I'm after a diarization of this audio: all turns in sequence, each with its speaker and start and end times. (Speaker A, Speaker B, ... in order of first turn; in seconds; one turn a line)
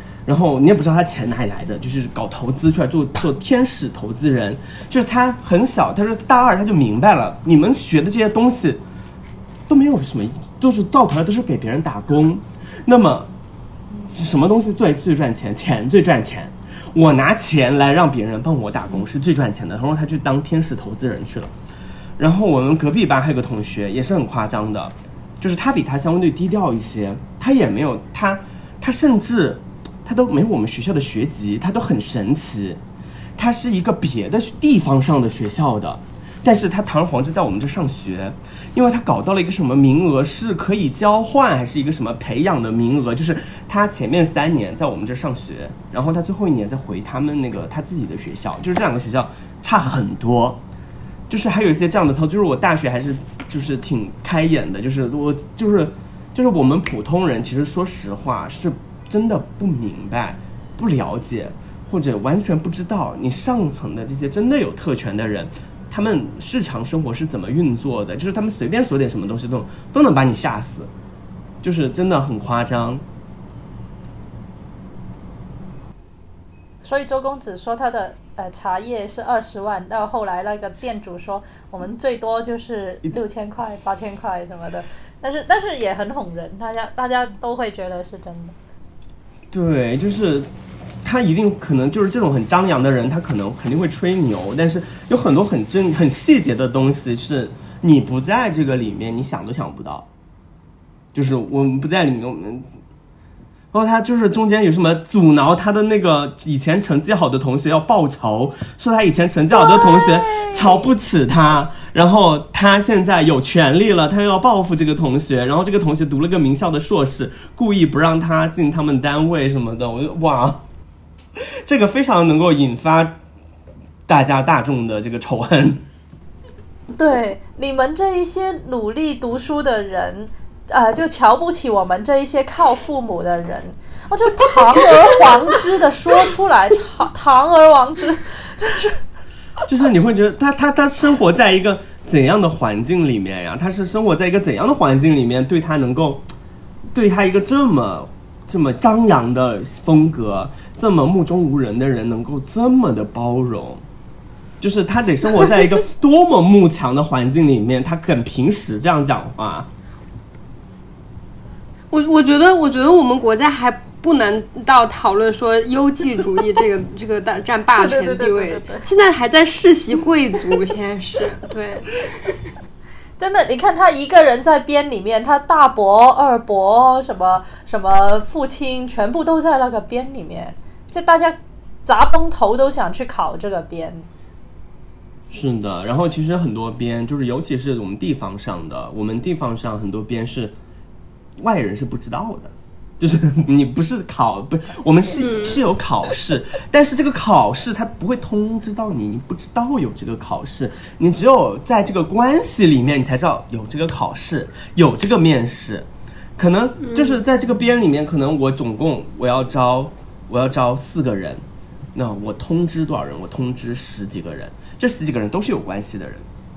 Speaker A: 0.2-8.8
Speaker A: 9.7-13.3
Speaker A: 14.0-21.5
Speaker A: 22.2-32.8
Speaker A: 33.4-50.6
Speaker A: 51.3-70.9
Speaker A: 71.6-73.0
Speaker B: 76.8-88.5
Speaker A: 89.5-90.5
Speaker A: 91.0-100.1
Speaker A: 101.1-102.7
Speaker A: 103.7-120.6
Speaker A: 121.6-123.1
Speaker A: 124.1-125.8
Speaker B: 127.0-139.0
Speaker A: 139.7-146.2
Speaker A: 146.9-153.8
Speaker A: 154.6-159.7
Speaker C: 161.9-172.3
Speaker B: 167.8-168.9
Speaker B: 173.2-184.1
Speaker A: 185.3-190.5
Speaker A: 191.4-216.2
Speaker C: 195.2-195.6
Speaker C: 206.8-207.1